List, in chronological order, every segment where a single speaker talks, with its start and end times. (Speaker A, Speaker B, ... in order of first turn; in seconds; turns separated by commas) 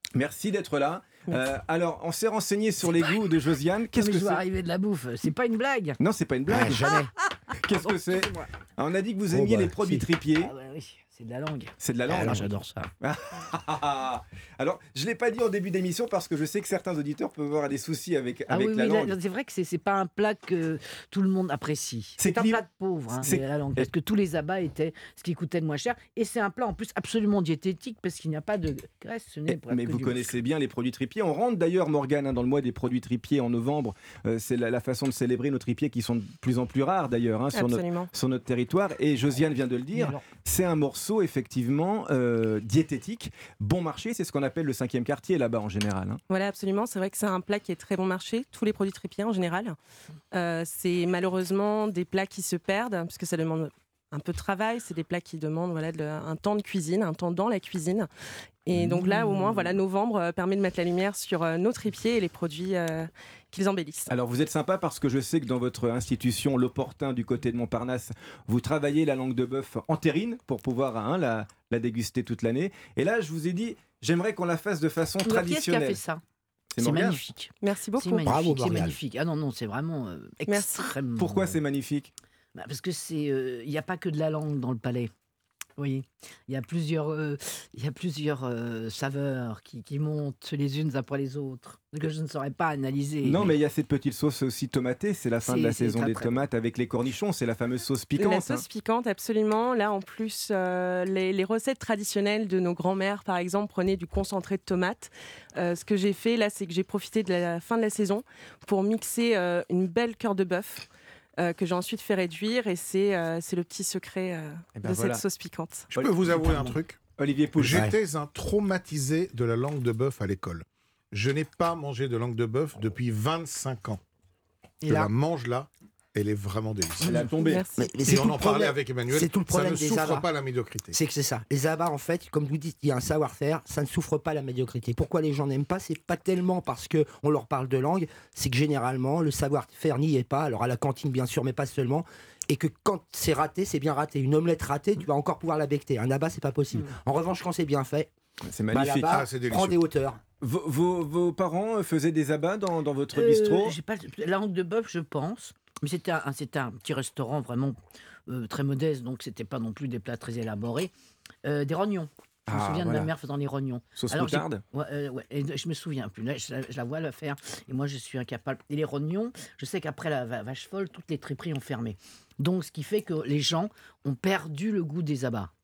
Speaker A: 0.1-4.4, Speaker B: 3.9-6.0, Speaker A: 6.0-10.5, Speaker C: 6.5-7.0, Speaker B: 6.7-7.1, Speaker B: 7.8-8.5, Speaker C: 9.3-9.7, Speaker B: 9.8-12.9, Speaker A: 11.8-12.5, Speaker C: 12.1-12.3, Speaker A: 13.0-19.2, Speaker B: 18.5-30.4, Speaker A: 22.2-22.6, Speaker A: 23.1-23.9, Speaker A: 29.5-46.2, Speaker D: 37.5-38.1, Speaker B: 39.9-40.2, Speaker D: 46.3-49.8, Speaker D: 50.3-58.1, Speaker D: 58.6-64.1, Speaker A: 64.1-76.0, Speaker B: 75.2-76.2, Speaker A: 76.7-77.2, Speaker B: 76.8-81.6, Speaker D: 77.6-78.4, Speaker C: 78.2-79.0, Speaker D: 80.5-80.9, Speaker A: 81.2-82.1, Speaker B: 82.5-85.1, Speaker B: 85.8-93.5, Speaker A: 93.2-98.6, Speaker B: 95.4-96.5, Speaker D: 98.2-110.8, Speaker D: 111.4-115.9, Speaker A: 114.8-115.2, Speaker E: 115.9-117.0, Speaker A: 115.9-117.9, Speaker B: 116.4-116.7, Speaker E: 117.5-124.0, Speaker C: 124.8-125.1, Speaker E: 124.9-127.2, Speaker A: 127.0-127.6, Speaker D: 127.4-127.9, Speaker C: 127.8-130.3, Speaker E: 128.0-130.9, Speaker C: 130.9-148.1, Speaker A: 148.4-149.2, Speaker C: 148.7-150.2, Speaker E: 149.1-149.7, Speaker A: 150.4-153.8, Speaker B: 153.1-157.8, Speaker B: 158.3-160.9, Speaker B: 161.4-175.5, Speaker A: 162.5-163.1, Speaker A: 163.9-164.6